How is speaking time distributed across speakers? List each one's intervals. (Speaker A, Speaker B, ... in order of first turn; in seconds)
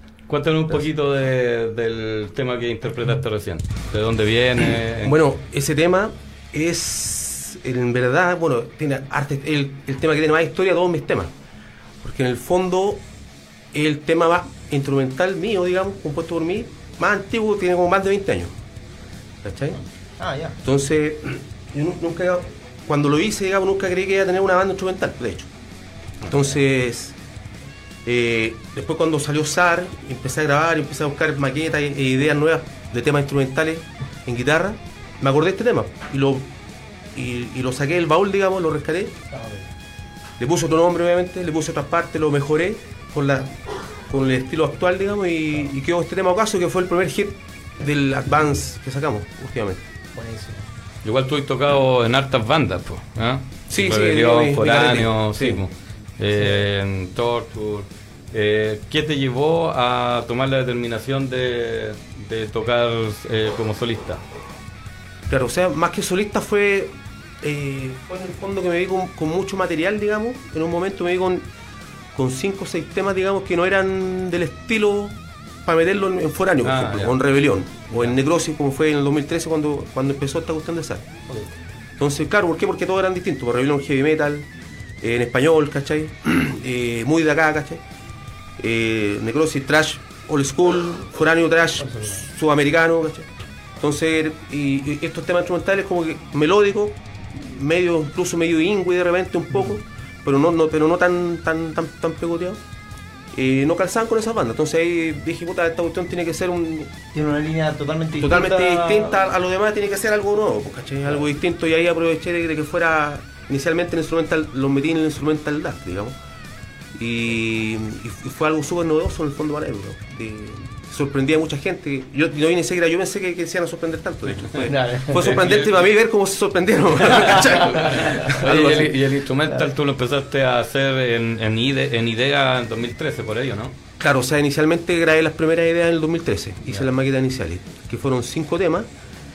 Speaker A: 0.3-5.2, 51.0-64.2, 76.6-77.2, 125.1-125.9, 127.2-133.8
Speaker B: 5.0-11.3, 12.0-13.0, 13.7-18.5, 19.4-19.8, 20.6-25.5, 26.2-27.2, 28.0-36.5, 37.1-39.2, 40.4-49.8, 53.7-55.6, 65.3-71.5, 72.1-81.1, 82.0-84.5, 85.0-87.8, 88.6-102.6, 103.3-106.9, 108.2-116.2, 116.9-129.0, 134.0-138.9
Speaker C: 20.2-20.6, 39.3-39.7, 50.1-50.6, 91.8-92.2, 107.1-109.2, 124.7-125.2